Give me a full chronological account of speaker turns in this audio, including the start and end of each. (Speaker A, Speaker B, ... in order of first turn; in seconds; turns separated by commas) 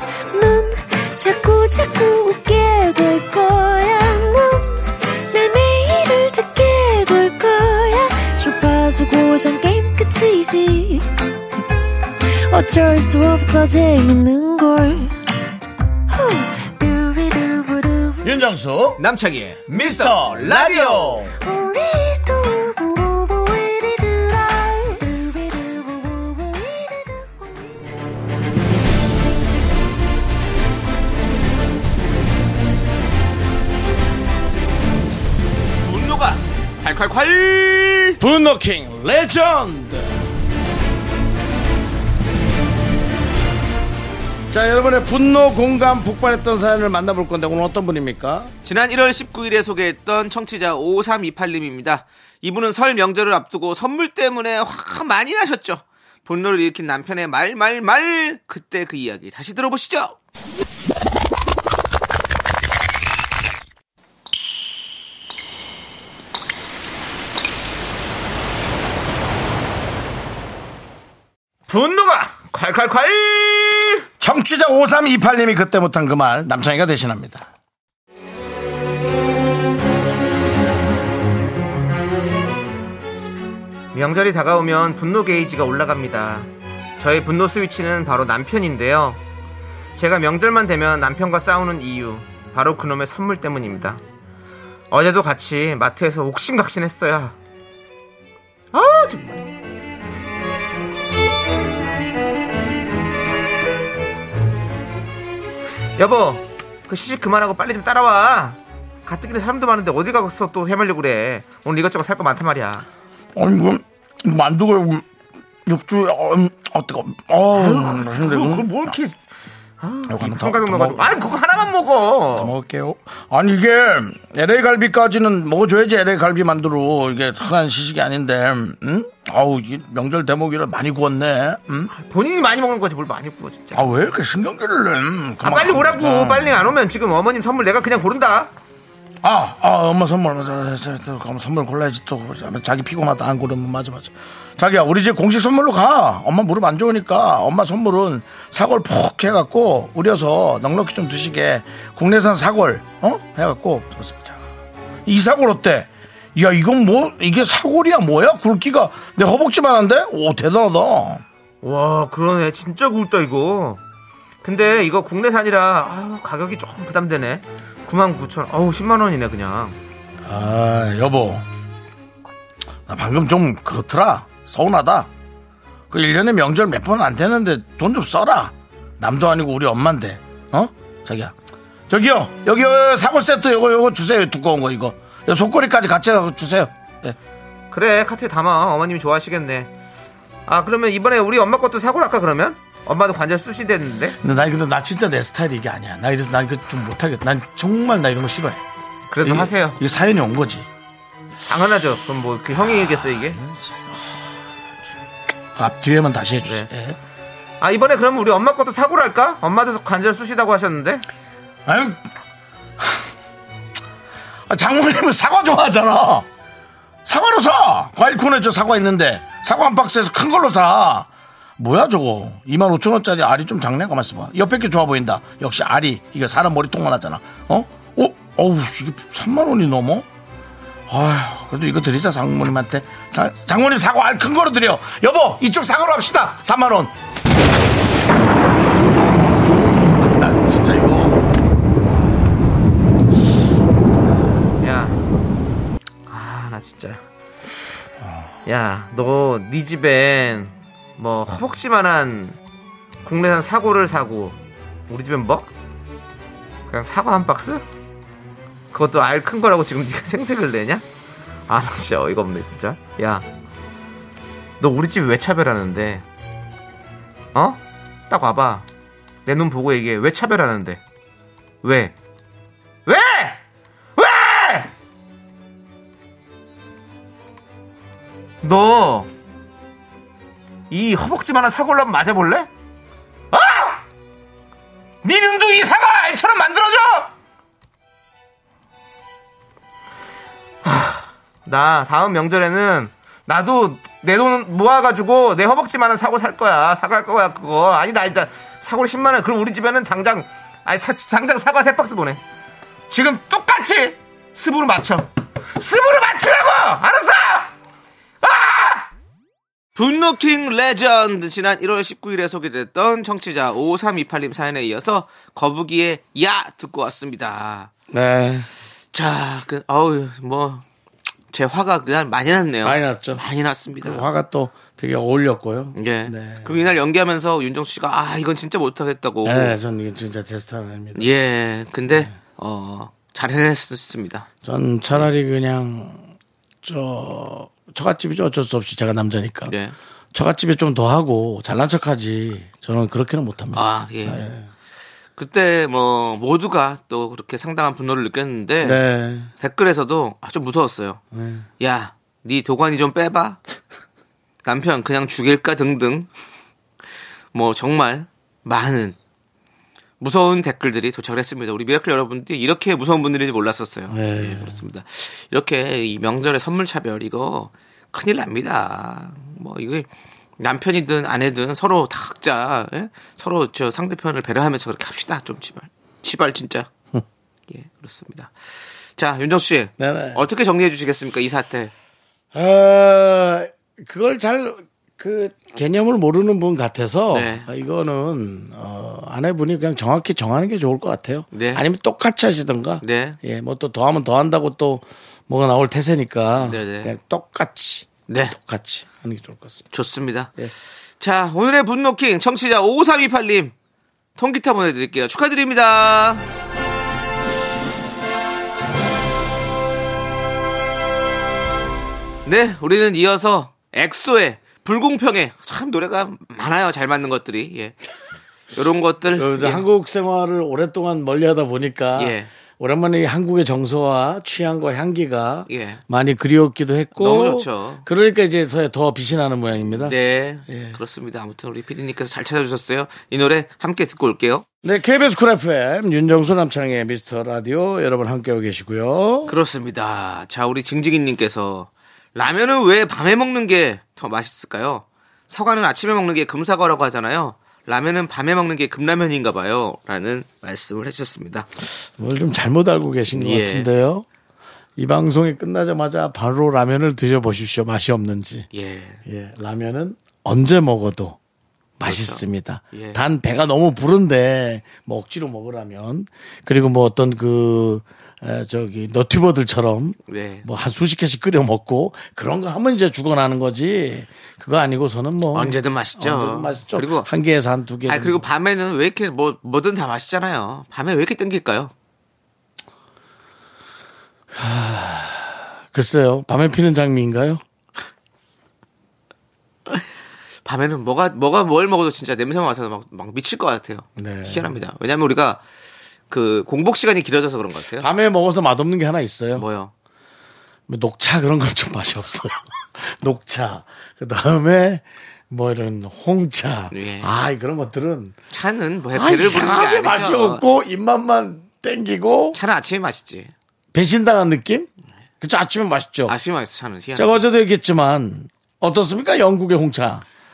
Speaker A: 0.3-11.6, Speaker A: 12.2-15.2, Speaker A: 16.1-18.4, Speaker B: 18.2-19.0, Speaker C: 19.0-21.3, Speaker B: 19.7-21.4, Speaker A: 21.4-27.8, Speaker C: 35.8-38.2, Speaker B: 38.2-40.2, Speaker B: 44.5-48.5, Speaker C: 48.6-60.1, Speaker C: 71.7-74.0, Speaker B: 74.2-77.5, Speaker C: 83.9-89.2, Speaker C: 90.0-94.0, Speaker C: 94.9-97.4, Speaker C: 98.7-99.5, Speaker C: 106.0-112.9, Speaker B: 113.3-115.1, Speaker B: 115.7-118.9, Speaker C: 117.5-119.2, Speaker C: 119.8-122.5, Speaker B: 120.1-121.3, Speaker B: 122.3-131.9, Speaker C: 131.9-133.9, Speaker B: 133.7-136.7, Speaker C: 135.4-138.5, Speaker B: 139.2-154.4, Speaker B: 155.1-161.2, Speaker C: 161.6-163.8, Speaker C: 164.4-169.8, Speaker B: 170.2-171.4, Speaker B: 172.9-175.1, Speaker B: 175.9-181.3, Speaker B: 181.9-187.2, Speaker C: 187.7-189.7, Speaker C: 190.5-194.2, Speaker B: 194.2-198.6, Speaker C: 199.1-199.8, Speaker B: 199.2-200.7, Speaker C: 201.5-203.4, Speaker B: 202.9-203.8, Speaker B: 205.6-207.0, Speaker C: 207.6-211.1, Speaker B: 211.7-212.0, Speaker B: 214.5-216.3, Speaker B: 217.1-230.1, Speaker B: 230.9-236.9, Speaker B: 239.9-241.2, Speaker C: 244.6-245.0, Speaker C: 246.1-247.0, Speaker B: 248.0-248.3, Speaker C: 248.5-252.4, Speaker C: 253.1-254.4, Speaker C: 254.9-255.5, Speaker C: 256.7-257.6, Speaker C: 258.7-260.8, Speaker C: 261.5-263.2, Speaker C: 264.6-266.0, Speaker C: 267.3-268.6, Speaker C: 269.3-270.8, Speaker C: 271.6-271.9, Speaker C: 272.9-273.4, Speaker C: 274.0-274.7, Speaker C: 278.4-279.1, Speaker C: 280.7-282.5, Speaker C: 283.3-283.8, Speaker C: 285.0-287.1, Speaker C: 290.6-302.2, Speaker C: 302.9-307.5, Speaker C: 308.2-308.9, Speaker C: 309.8-317.7, Speaker B: 317.9-318.5, Speaker C: 318.9-320.6, Speaker C: 321.3-324.1, Speaker B: 322.6-323.2, Speaker B: 323.8-326.6, Speaker C: 325.8-329.6, Speaker B: 329.2-331.1, Speaker C: 330.9-334.3, Speaker B: 331.9-332.1, Speaker B: 334.4-336.1, Speaker B: 336.6-339.6, Speaker C: 339.5-339.8, Speaker B: 340.1-344.5, Speaker C: 343.5-344.2, Speaker C: 345.2-348.8, Speaker B: 348.6-349.3, Speaker C: 349.4-351.0, Speaker B: 351.1-351.5, Speaker C: 351.6-353.4, Speaker C: 354.4-356.1, Speaker C: 357.3-358.9, Speaker C: 360.0-369.9, Speaker B: 363.9-364.6, Speaker C: 370.4-376.7, Speaker C: 377.5-378.3, Speaker C: 379.0-381.7, Speaker B: 379.8-380.2, Speaker B: 382.3-399.7, Speaker C: 387.1-387.5, Speaker C: 391.3-391.6, Speaker C: 392.8-393.2, Speaker C: 396.4-396.9, Speaker C: 398.1-398.4, Speaker C: 399.7-400.3, Speaker C: 401.0-403.5, Speaker C: 404.2-406.2, Speaker C: 412.3-417.7, Speaker C: 418.6-419.6, Speaker B: 419.2-430.8, Speaker C: 422.0-422.3, Speaker C: 425.5-425.8, Speaker C: 427.0-427.8, Speaker C: 429.8-434.4, Speaker B: 434.6-439.4, Speaker C: 439.3-451.5, Speaker B: 451.7-454.1, Speaker C: 453.1-453.7, Speaker B: 454.8-458.5, Speaker C: 458.5-459.0, Speaker B: 459.1-461.2, Speaker B: 461.8-478.3, Speaker C: 461.9-463.0, Speaker C: 470.1-470.5, Speaker C: 475.3-477.1, Speaker C: 477.9-481.7, Speaker B: 484.3-487.4, Speaker C: 490.5-495.4, Speaker B: 494.0-494.6, Speaker C: 496.1-497.9, Speaker B: 497.7-499.4, Speaker C: 499.4-499.7, Speaker B: 500.7-508.1, Speaker C: 506.7-507.1, Speaker C: 508.3-510.4, Speaker B: 508.9-512.4, Speaker C: 512.3-513.3, Speaker B: 513.7-514.7, Speaker B: 515.2-516.1, Speaker C: 516.1-517.2, Speaker B: 517.0-520.0